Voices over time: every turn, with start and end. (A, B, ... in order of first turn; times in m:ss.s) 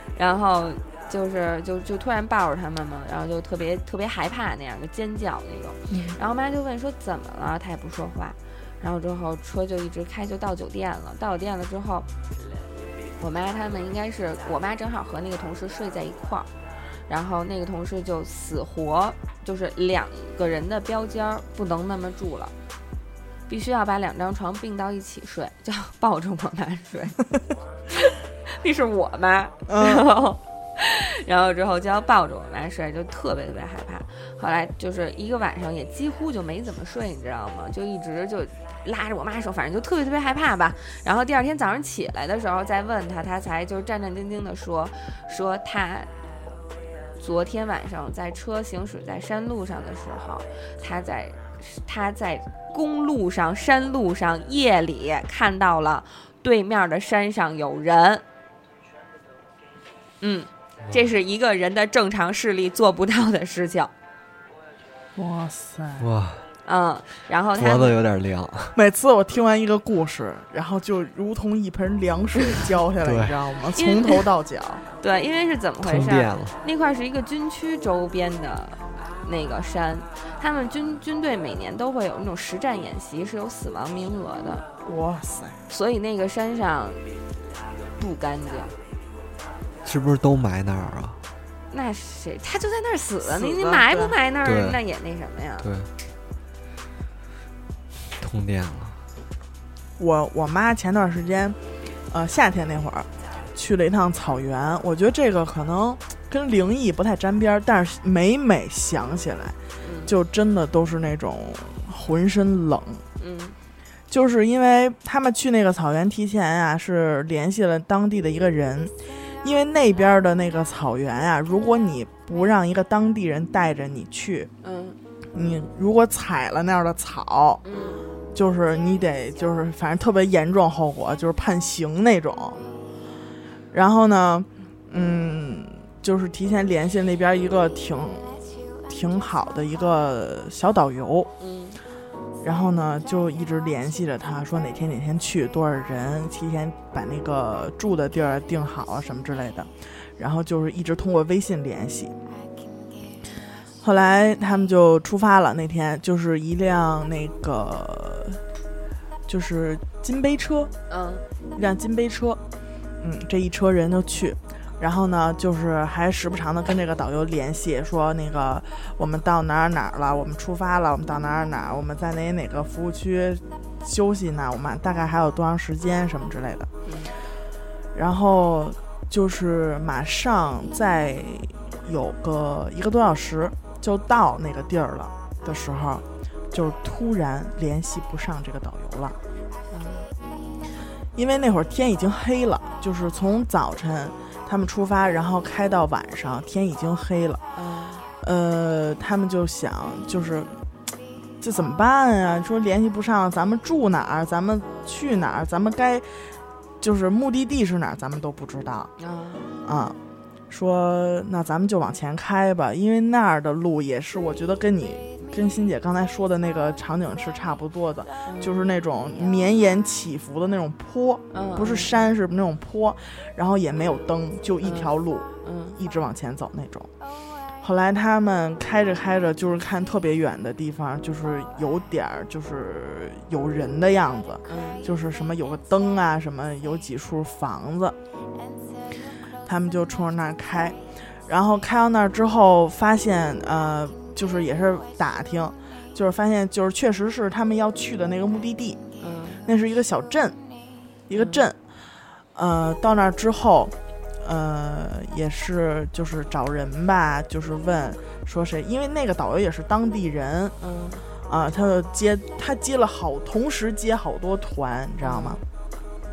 0:00.1-0:12.1 A
0:05.9-0:06.2 B
0:13.2-0:16.5 A
0:17.1-0:22.5 A
0:23.5-0:27.2 A
0:27.9-0:46.1 A
0:29.7-0:30.1 B
0:47.2-0:58.2 A
1:00.2-1:03.9 A
1:05.2-1:06.1 B
1:06.0-1:06.4 C
1:06.6-1:07.9 A
1:07.6-1:08.8 C
1:08.7-1:14.8 B
1:13.0-1:13.4 C
1:13.8-1:14.2 A
1:15.0-1:24.6 A
1:15.8-1:16.5 C
1:24.8-1:25.6 B
1:25.7-1:27.0 A
1:28.0-1:28.8 A
1:29.8-1:31.2 C
1:31.7-1:35.7 A
1:33.2-1:34.1 B
1:34.4-1:34.8 C
1:35.6-1:35.9 C
1:38.2-1:39.0 C
1:40.0-1:41.6 B
1:42.1-1:53.0 B
1:49.8-1:50.1 A
1:53.2-1:53.6 A
1:54.1-2:04.5 B
2:04.6-2:05.0 A
2:05.3-2:07.6 B
2:07.6-2:08.0 A
2:08.3-2:12.6 B
2:13.7-2:21.3 B
2:21.4-2:21.8 A
2:22.4-2:32.1 B
2:33.8-2:38.4 B
2:39.3-2:40.7 B
2:40.9-2:41.2 A
2:41.5-2:42.4 B
2:43.0-2:56.7 B
2:56.8-2:57.1 A
2:57.9-3:09.2 B
3:09.7-3:10.1 A
3:11.1-3:17.4 B
3:17.5-3:18.0 A
3:18.2-3:20.6 B
3:21.4-3:26.3 B
3:26.8-3:28.9 B
3:29.0-3:29.5 A
3:29.6-3:30.0 B
3:30.5-3:46.9 B
3:38.2-3:38.7 A
3:41.3-3:41.9 A
3:44.6-3:44.9 A
3:45.4-3:45.8 A
3:47.6-3:58.0 B
3:54.4-3:54.8 A
3:59.4-4:08.8 B
4:09.0-4:09.4 A
4:09.4-4:10.4 B
4:11.1-4:11.6 B
4:11.2-4:11.4 A
4:12.3-4:20.5 B
4:20.6-4:21.0 A
4:21.3-4:25.4 B
4:25.0-4:25.4 A